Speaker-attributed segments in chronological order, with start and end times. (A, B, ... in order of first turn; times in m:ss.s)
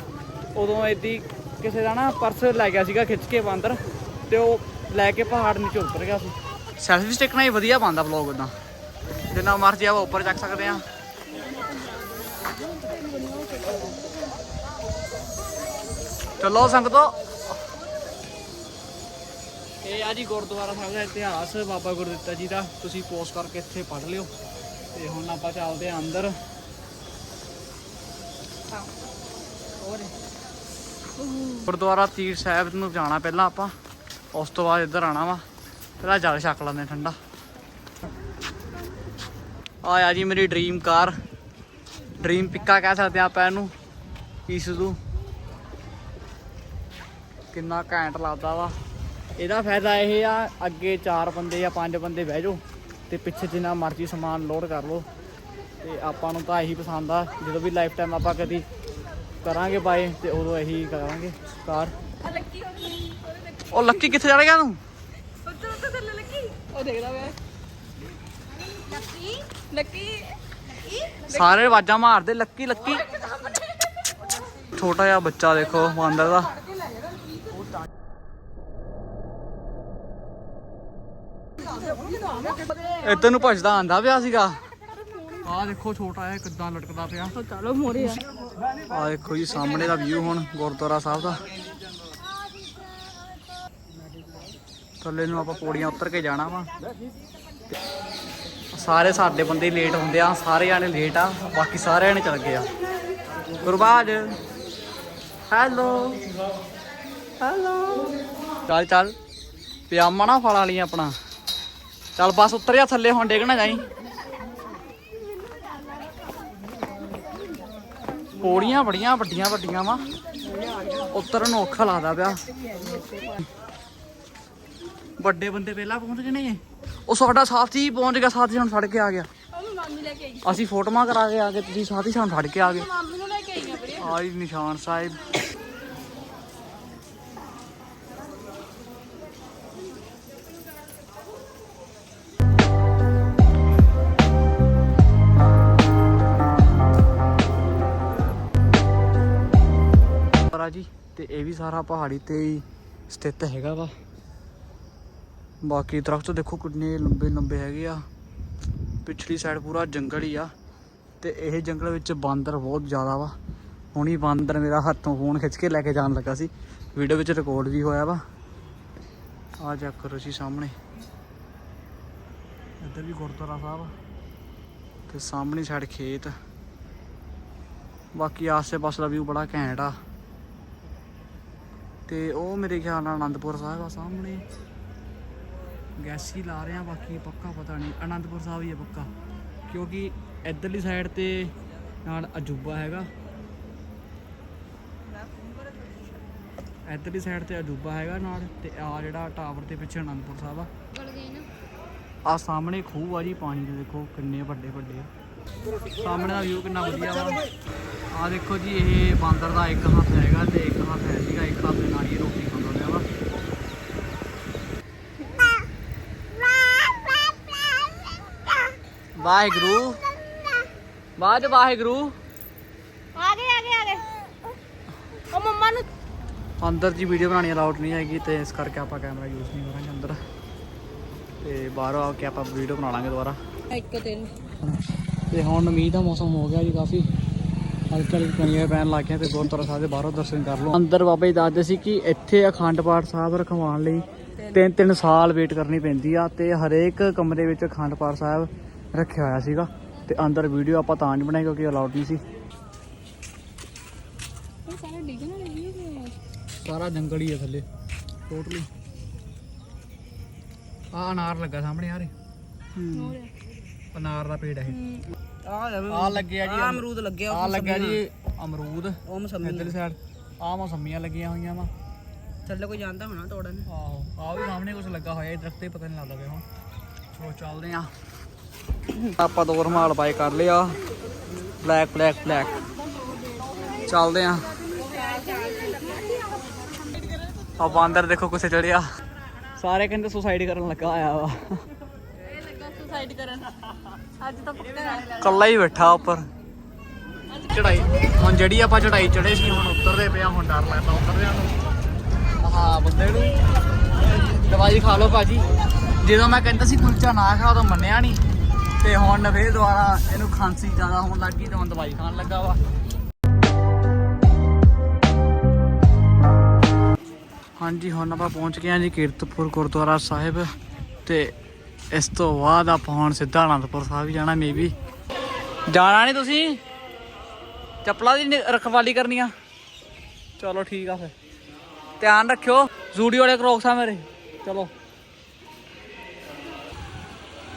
0:00.5-0:03.8 A
0:04.3-0:08.5 A
0:09.3-0:10.8 A
0:11.4-0:14.3 B
0:16.4-0:17.2 A
0:19.8-0:24.3 A
0:24.9-0:26.3 A
0:29.8-0:30.1 C
0:31.2-0:31.6 B
0:31.6-0:33.7 A
0:34.3-0:35.4 A
0:36.0-0:37.2 A
0:39.8-0:41.2 A
0:42.2-0:43.7 A
0:44.5-0:45.0 A
0:47.5-0:48.7 A
0:49.4-0:55.0 A
0:55.8-0:58.6 A
0:59.4-1:01.9 A
1:02.2-1:03.8 B
1:03.7-1:04.8 A
1:05.4-1:07.4 B
1:08.9-1:10.4 B
1:10.9-1:11.3 B
1:11.3-1:13.0 A
1:14.7-1:16.5 A
1:23.0-1:24.6 A
1:25.4-1:27.4 A
1:27.4-1:28.2 B
1:28.9-1:31.4 A
1:35.0-1:36.7 A
1:38.7-1:42.7 A
1:43.6-1:44.4 A
1:45.5-1:46.2 A
1:47.4-1:48.1 A
1:48.6-1:49.1 A
1:49.9-1:51.1 A
1:52.2-1:53.8 A
1:58.4-2:00.1 A
2:01.1-2:02.4 A
2:05.2-2:09.3 A
2:09.5-2:10.6 B
2:10.4-2:12.9 A
2:12.6-2:14.1 B
2:14.0-2:15.2 A
2:30.5-2:33.9 A
2:35.6-2:38.0 A
2:39.0-2:40.5 A
2:41.2-2:43.3 A
2:43.9-2:48.2 A
2:49.6-2:50.7 A
2:52.8-2:53.9 A
2:55.1-2:56.3 A
2:58.1-3:00.0 A
3:02.1-3:04.4 A
3:06.0-3:09.1 A
3:09.7-3:11.5 A
3:12.0-3:13.1 A
3:16.8-3:20.7 A
3:21.1-3:21.4 B
3:22.2-3:25.1 A
3:26.0-3:27.4 A
3:28.1-3:33.1 A
3:39.2-3:40.0 A
3:41.2-3:42.1 A
3:43.2-3:44.0 B
3:45.3-3:45.8 B
3:46.6-3:50.2 A
3:51.4-3:53.4 A
3:53.7-3:54.2 B
3:53.8-3:54.3 C
3:55.3-3:57.1 A
3:57.9-4:12.2 A
4:14.7-4:16.2 B
4:16.6-4:17.6 A
4:18.3-4:18.7 A
4:20.9-4:22.1 A
4:22.8-4:23.2 C
4:22.9-4:23.3 B
4:23.9-4:24.8 A
4:24.7-4:25.0 B
4:25.4-4:28.1 C
4:25.9-4:31.7 A
4:29.0-4:29.8 C
4:32.4-4:33.7 C
4:33.6-4:36.4 A
4:37.1-4:37.9 A
4:39.0-4:40.8 A
4:41.6-4:42.6 A
4:43.8-4:44.5 A
4:44.7-4:47.2 B
4:47.6-4:48.8 A
4:49.6-4:51.6 A
4:52.3-4:55.2 B
4:55.2-4:56.3 A
4:57.4-5:01.5 A
5:02.4-5:03.4 A
5:04.3-5:05.4 A
5:06.0-5:08.2 A
5:08.8-5:12.6 A
5:17.6-5:20.5 A
5:21.0-5:21.3 A
5:21.9-5:24.7 A
5:25.7-5:26.6 A
5:27.8-5:29.3 A
5:30.4-5:31.1 A
5:32.0-5:34.7 A